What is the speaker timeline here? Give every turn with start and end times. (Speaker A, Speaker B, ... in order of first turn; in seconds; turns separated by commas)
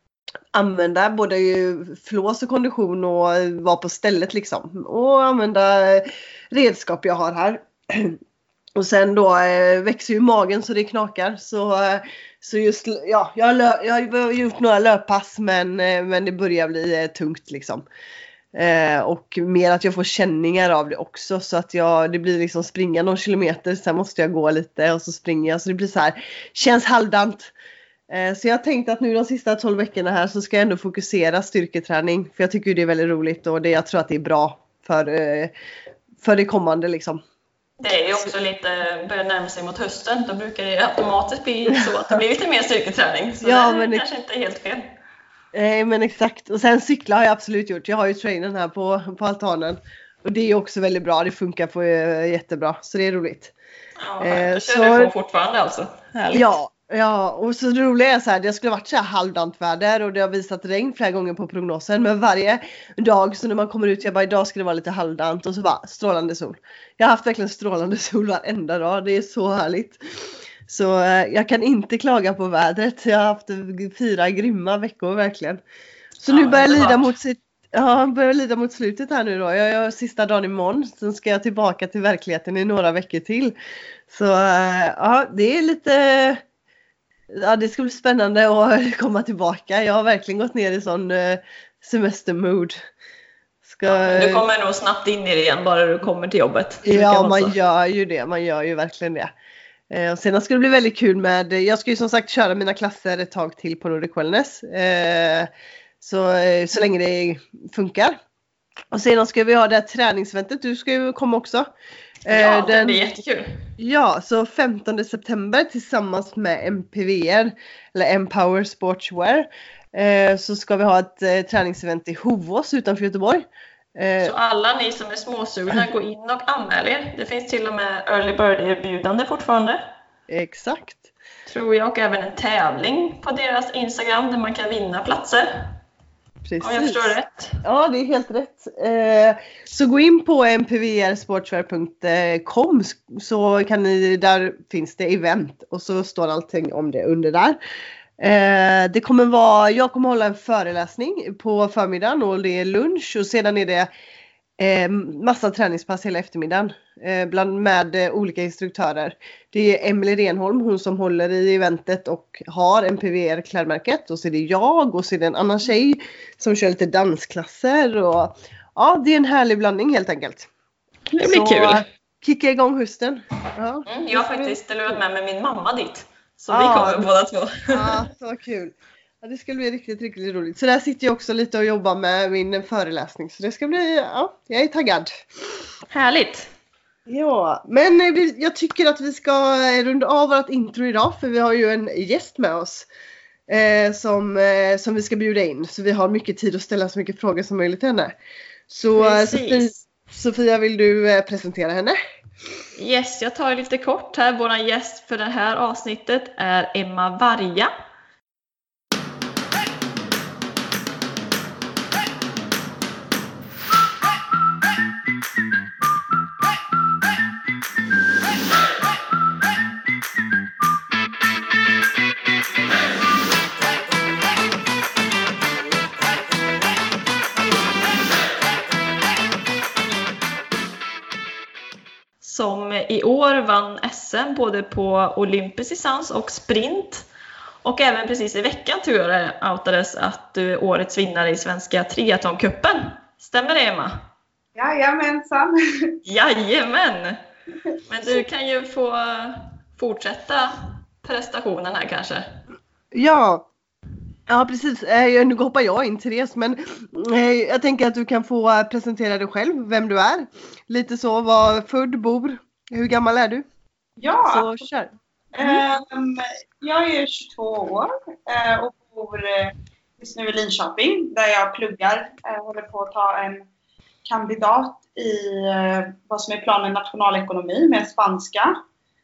Speaker A: 0.5-8.2, Speaker A: 8.8-17.8, Speaker A: 18.5-27.5, Speaker A: 28.1-35.5, Speaker A: 36.2-37.2, Speaker B: 37.8-44.8, Speaker A: 43.4-44.0, Speaker A: 45.5-53.5, Speaker B: 54.0-56.5, Speaker A: 54.2-55.1, Speaker A: 56.3-75.6, Speaker A: 76.2-83.5, Speaker B: 76.3-77.1, Speaker A: 84.1-86.4, Speaker A: 87.3-92.8, Speaker A: 93.6-94.4, Speaker B: 93.9-97.5, Speaker A: 96.8-99.3, Speaker A: 99.9-105.5, Speaker A: 106.0-108.2, Speaker A: 108.9-111.7, Speaker A: 112.2-113.0, Speaker B: 112.3-113.7, Speaker A: 113.8-124.3, Speaker B: 124.2-129.8, Speaker A: 130.3-131.1, Speaker B: 131.5-135.8, Speaker A: 136.4-137.1, Speaker B: 136.6-137.6, Speaker A: 137.6-147.6, Speaker A: 148.2-153.9, Speaker A: 154.6-170.5, Speaker B: 171.1-171.8, Speaker A: 171.2-174.9, Speaker B: 173.9-178.0, Speaker A: 176.5-177.1, Speaker A: 177.7-185.2, Speaker B: 185.9-186.5, Speaker A: 187.1-192.9, Speaker A: 193.5-198.1, Speaker A: 198.7-202.0, Speaker B: 198.9-199.8, Speaker B: 202.8-207.7, Speaker B: 232.2-237.1, Speaker B: 237.6-244.0, Speaker C: 244.5-246.0, Speaker B: 246.1-247.2, Speaker B: 247.9-252.3, Speaker A: 252.9-253.5, Speaker A: 254.3-263.4, Speaker C: 264.0-264.7, Speaker A: 264.3-265.6, Speaker C: 265.3-273.4, Speaker C: 274.0-278.5